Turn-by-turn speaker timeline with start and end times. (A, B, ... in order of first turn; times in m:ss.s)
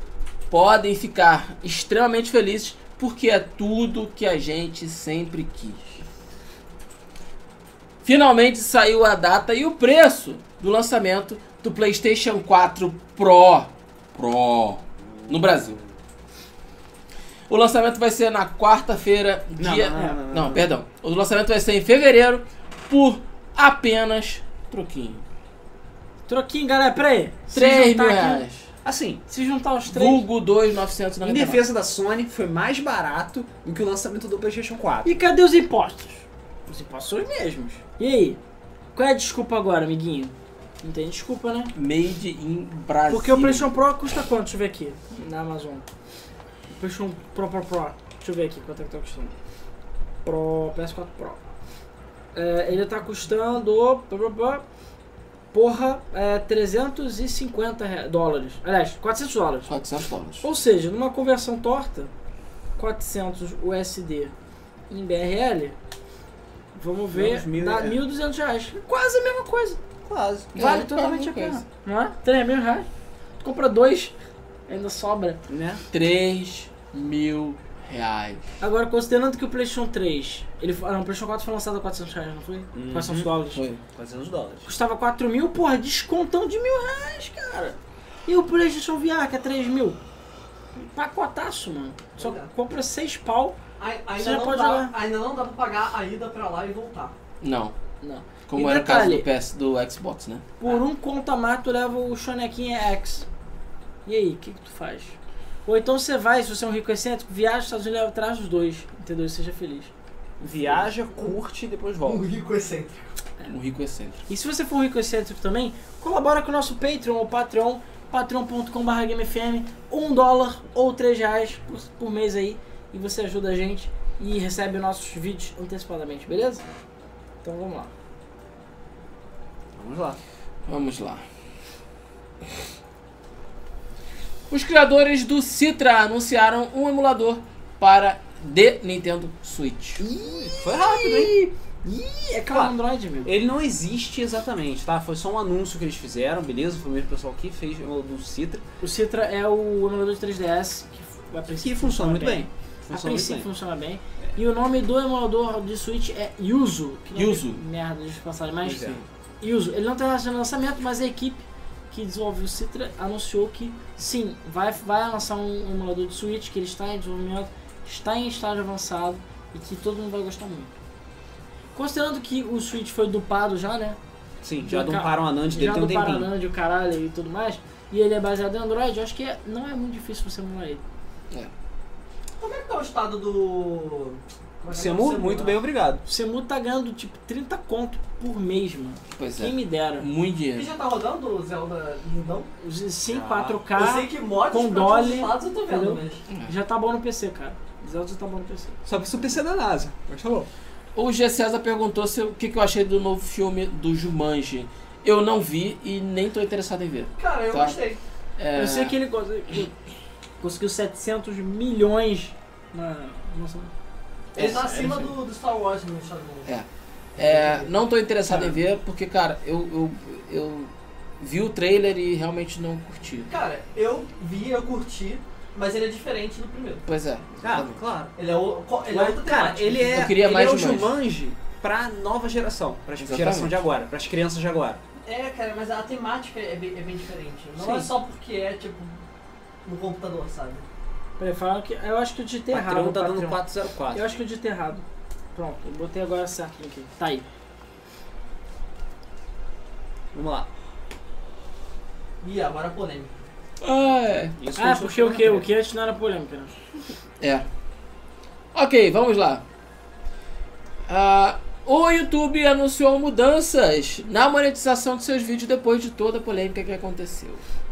0:00.5-0:05.8 A
0:08.0-0:15.8 A
0:15.2-0:15.6 B
0:17.5-0:25.2 A
0:19.6-0:20.7 B
0:26.3-0:28.4 C
0:27.5-0:28.7 A
0:28.8-0:29.2 B
0:29.3-0:30.2 C
0:29.9-0:31.6 A
0:31.2-0:35.2 B
0:35.0-0:38.4 C
0:38.9-0:41.7 C
0:41.7-0:43.7 A
0:43.1-0:45.8 C
0:46.7-0:49.4 C
0:50.2-0:51.4 C
0:52.3-0:54.6 C
0:55.5-0:59.7 C
0:59.7-1:00.4 A
1:00.4-1:02.1 C
1:02.8-1:04.3 C
1:04.9-1:05.8 C
1:06.7-1:09.8 C
1:07.1-1:08.0 B
1:10.0-1:10.6 B
1:10.5-1:11.6 A
1:10.6-1:12.9 C
1:13.4-1:14.1 C
1:14.7-1:15.4 C
1:15.5-1:15.8 B
1:15.9-1:18.4 A
1:18.6-1:23.6 C
1:22.7-1:23.3 B
1:23.5-1:23.8 A
1:23.9-1:24.7 B
1:24.6-1:30.0 C
1:30.7-1:33.6 C
1:32.2-1:32.5 D
1:33.8-1:37.1 D
1:34.2-1:34.9 C
1:37.4-1:37.8 A
1:38.0-1:39.3 C
1:38.5-1:40.5 A
1:40.6-1:43.3 C
1:44.0-1:49.9 C
1:50.4-1:52.3 B
1:50.7-1:51.4 D
1:52.0-1:53.1 D
1:53.4-1:54.2 A
1:54.3-2:06.6 C
2:07.4-2:07.9 C
2:09.7-2:10.2 B
2:10.7-2:11.2 A
2:14.5-2:20.0 A
2:20.0-2:21.5 B
2:20.0-2:23.3 C
2:23.2-2:28.6 B
2:28.8-2:50.7 C
2:31.6-2:33.5 B
2:37.1-2:37.6 A
2:38.6-2:39.0 B
2:51.7-2:54.0 C
2:54.4-2:56.3 B
2:54.6-3:00.8 C
3:02.4-3:05.6 D
3:04.7-3:06.0 B
3:06.0-3:10.1 C
3:09.1-3:10.7 A
3:10.6-3:12.5 D
3:12.6-3:18.8 C
3:13.1-3:13.6 B
3:13.8-3:16.2 D
3:18.9-3:20.5 B
3:20.9-3:27.8 A
3:27.2-3:28.0 D
3:28.4-3:29.0 A
3:28.5-3:29.7 C
3:30.4-3:33.7 C
3:34.3-3:35.1 B
3:34.4-3:34.6 A
3:34.4-3:36.5 D
3:36.4-3:43.3 A
3:38.3-3:38.6 B
3:43.3-3:46.9 D
3:46.9-3:47.8 A
3:47.4-3:48.1 B
3:48.2-3:50.0 D
3:48.9-3:54.8 B
3:49.9-3:50.9 A
3:53.0-3:53.6 A
3:55.0-3:59.0 D
3:57.6-3:57.9 C
3:59.6-4:00.6 D
4:01.2-4:03.4 C
4:02.5-4:04.0 B
4:03.9-4:04.8 C
4:05.3-4:07.3 C
4:10.1-4:10.5 B
4:12.2-4:13.1 D
4:13.6-4:14.4 A
4:14.4-4:15.4 B
4:14.6-4:16.6 C
4:17.2-4:17.4 A
4:18.5-4:19.4 A
4:20.9-4:27.4 A